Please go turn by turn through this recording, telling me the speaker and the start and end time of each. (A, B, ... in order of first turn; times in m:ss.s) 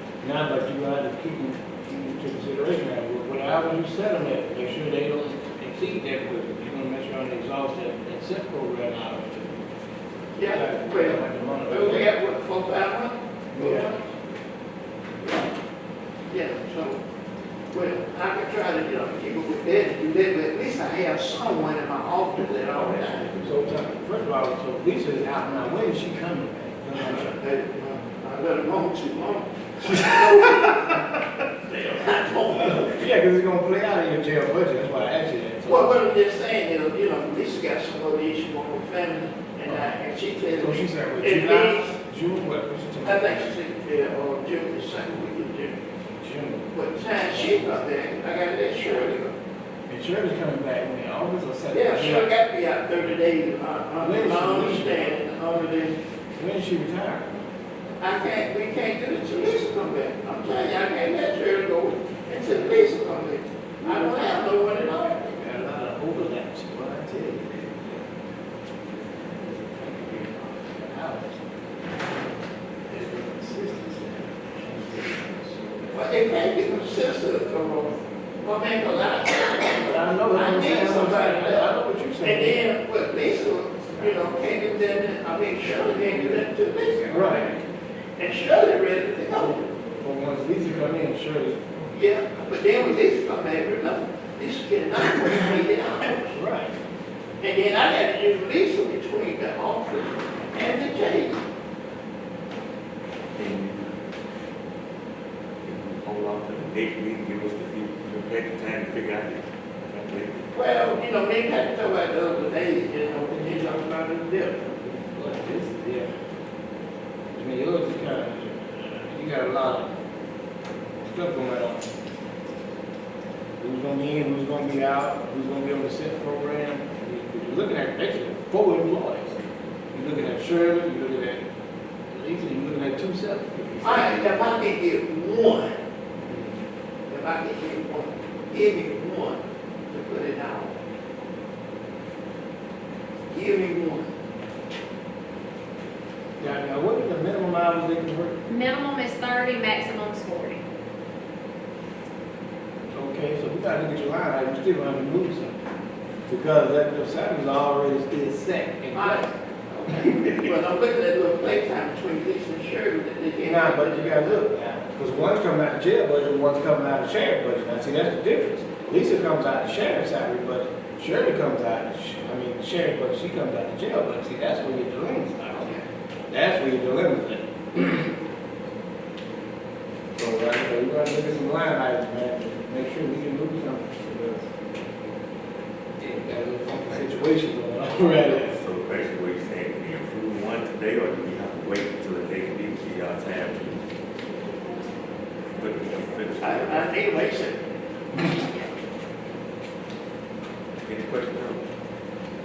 0:00.2-0:09.7 A
0:10.4-0:14.1 B
0:10.5-0:12.1 A
0:13.5-0:13.9 A
0:16.3-0:17.0 B
0:17.7-0:23.3 B
0:22.7-0:23.9 C
0:23.4-0:27.4 A
0:27.1-0:31.0 B
0:31.6-0:33.0 B
0:32.7-0:36.0 A
0:35.6-0:42.0 B
0:40.5-0:43.5 A
0:43.0-0:45.8 B
0:46.2-0:46.7 A
0:46.7-0:49.3 B
0:47.2-0:47.8 A
0:49.9-0:52.3 A
0:51.7-0:56.0 B
0:54.0-0:55.1 A
0:56.4-0:57.4 A
0:58.0-1:05.3 B
1:03.8-1:04.2 A
1:05.2-1:08.0 A
1:09.2-1:11.3 A
1:12.9-1:16.8 A
1:15.9-1:27.4 B
1:19.8-1:22.7 A
1:24.0-1:24.4 A
1:27.1-1:27.6 A
1:28.2-1:29.7 B
1:29.3-1:31.6 A
1:31.9-1:36.4 B
1:36.2-1:36.8 A
1:37.4-1:41.4 B
1:43.3-1:44.0 C
1:45.6-1:50.4 C
1:50.5-1:55.3 B
1:55.2-1:56.1 A
1:57.3-1:59.9 A
2:01.0-2:01.9 A
2:03.6-2:09.4 A
2:09.9-2:11.4 A
2:12.1-2:14.3 A
2:13.8-2:15.8 B
2:16.2-2:16.6 A
2:17.1-2:20.7 B
2:23.3-2:24.1 B
2:26.4-2:28.4 A
2:28.5-2:30.6 D
2:32.9-2:35.6 A
2:36.3-2:39.3 A
2:38.9-2:44.4 B
2:40.0-2:40.5 A
2:43.4-2:55.7 A
2:56.3-2:58.1 A
3:00.2-3:04.5 A
3:06.0-3:08.6 A
3:06.8-3:07.2 C
3:08.4-3:13.9 C
3:15.5-3:17.0 C
3:16.4-3:17.6 B
3:20.8-3:21.6 C